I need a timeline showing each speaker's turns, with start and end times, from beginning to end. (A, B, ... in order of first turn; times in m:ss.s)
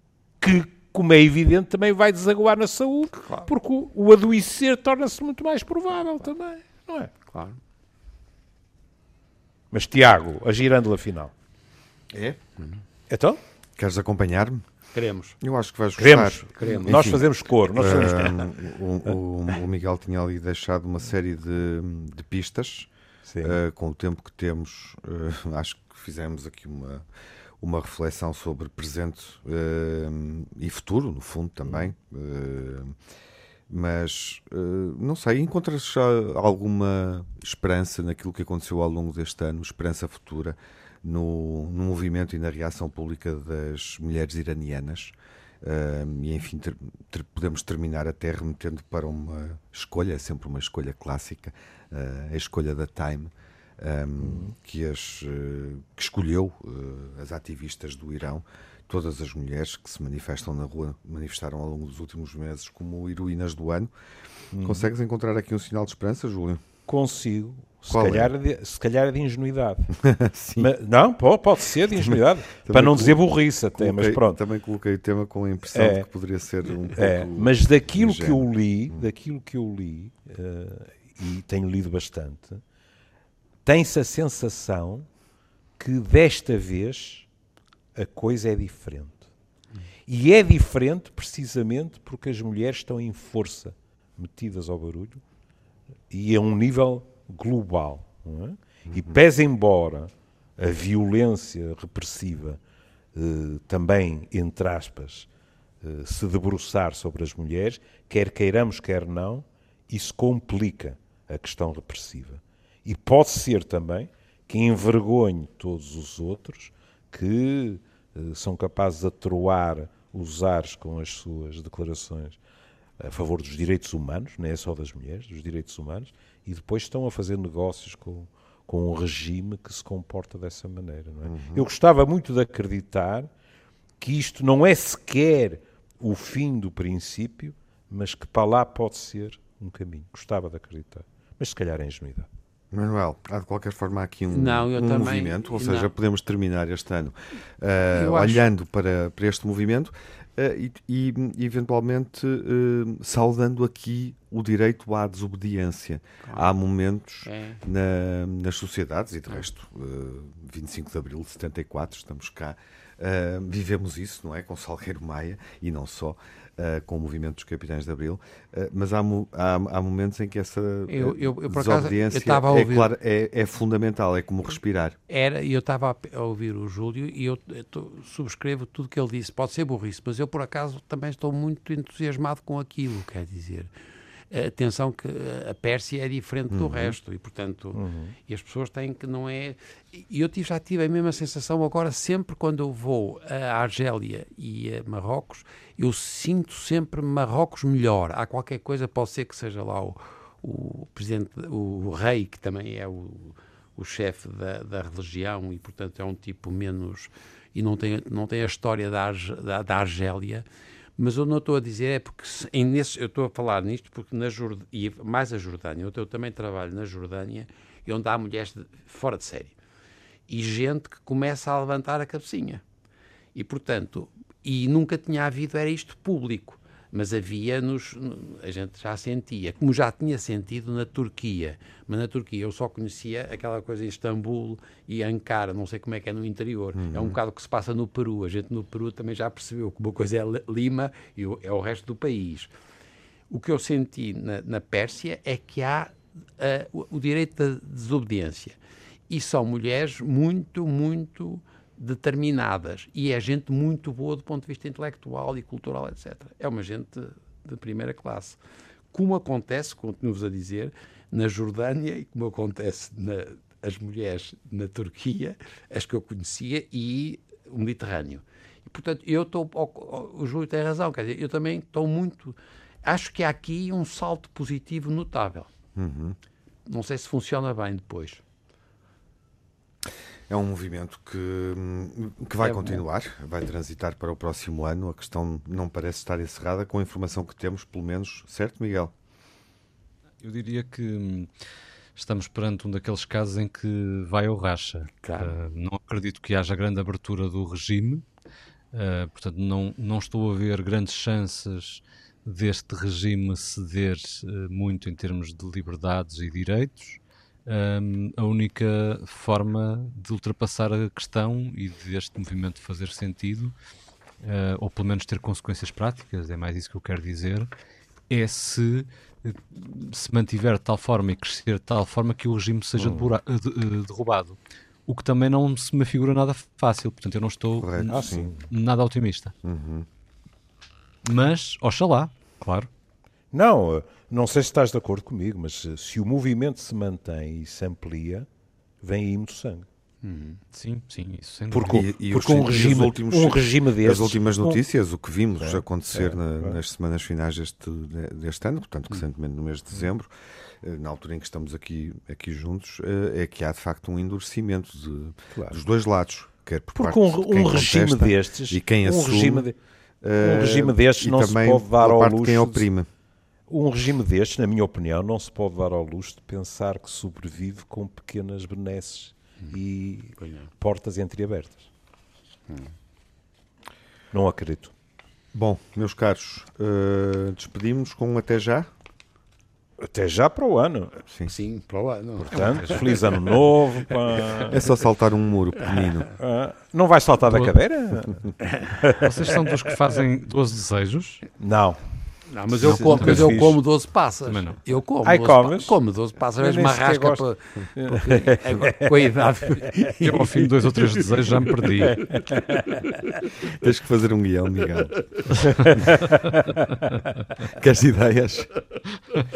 0:00.4-0:07.1 A
0:03.2-0:03.5 B
0:07.3-0:07.6 B
0:09.7-0:11.3 A
0:12.1-0:12.4 C
0:13.1-0:13.4 A
0:13.8-0:14.6 C
0:14.9-0:15.4 B
0:15.4-0:22.9 C
0:16.0-0:18.5 A
0:16.5-0:17.2 B
0:23.3-0:23.6 A
0:23.4-0:27.1 C
0:27.6-0:33.0 C
0:33.7-1:03.9 C
0:54.2-0:54.6 A
1:04.5-1:04.9 A
1:04.6-1:06.6 C
1:06.9-1:09.9 A
1:07.9-1:08.3 C
1:10.0-1:10.7 C
1:10.6-1:14.4 A
1:12.0-1:13.2 C
1:13.8-1:19.0 C
1:15.7-1:16.1 A
1:16.9-1:22.6 A
1:23.6-1:25.1 A
1:25.8-1:27.3 A
1:27.9-1:29.2 A
1:30.1-1:35.2 A
1:36.1-1:42.6 A
1:38.9-1:39.2 C
1:43.1-1:45.3 A
1:45.8-2:02.4 A
2:03.0-2:13.3 A
2:11.2-2:11.7 C
2:14.0-2:22.3 A
2:22.7-2:55.0 C
2:24.3-2:25.9 B
2:27.9-2:28.5 B
2:37.2-2:37.6 B
2:50.9-2:52.9 B
2:55.1-3:03.7 B
3:04.3-3:30.5 B
3:06.5-3:07.0 C
3:07.7-3:08.2 A
3:31.0-3:39.6 B
3:40.3-3:42.6 B
3:43.3-4:02.5 B
3:56.8-3:57.2 C
4:03.3-4:08.6 B
4:09.1-4:18.4 B
4:18.9-4:35.5 B
4:35.8-4:36.2 C
4:36.7-4:38.2 B
4:40.3-4:48.9 C
4:42.4-4:42.8 B
4:50.2-4:51.3 D
4:52.0-4:58.0 D
4:55.0-4:55.4 B
4:58.7-5:13.6 D
5:14.2-5:17.5 D
5:18.1-5:29.4 D
5:22.8-5:23.1 A
5:27.6-5:28.3 C
5:27.9-5:28.5 A
5:29.4-5:29.9 C
5:31.0-5:32.7 D
5:33.3-5:38.3 A
5:38.8-5:39.7 A
5:40.0-5:40.4 B
5:40.5-5:42.9 D
5:41.5-5:44.6 A
5:41.7-5:50.1 C
5:45.4-5:46.6 A
5:50.6-5:59.5 C
5:56.8-5:59.6 A
6:00.0-6:02.9 C
6:00.2-6:02.7 A
6:03.5-6:11.7 A
6:10.2-6:10.5 B
6:14.1-6:14.7 A
6:15.3-6:18.7 C
6:19.8-6:21.0 A
6:21.2-6:23.4 B
6:22.2-6:24.7 A
6:24.5-6:26.1 C
6:26.1-6:29.4 A
6:28.9-6:31.3 D
6:31.4-6:31.8 A
6:32.3-6:40.9 B
6:32.5-6:33.6 A
6:32.6-6:33.6 D
6:34.3-6:34.6 D
6:35.0-6:35.8 A
6:36.4-6:39.8 A
6:40.0-6:42.0 D
6:41.8-6:42.9 A
6:43.4-6:45.7 C
6:45.4-6:47.0 A
6:47.4-6:48.7 C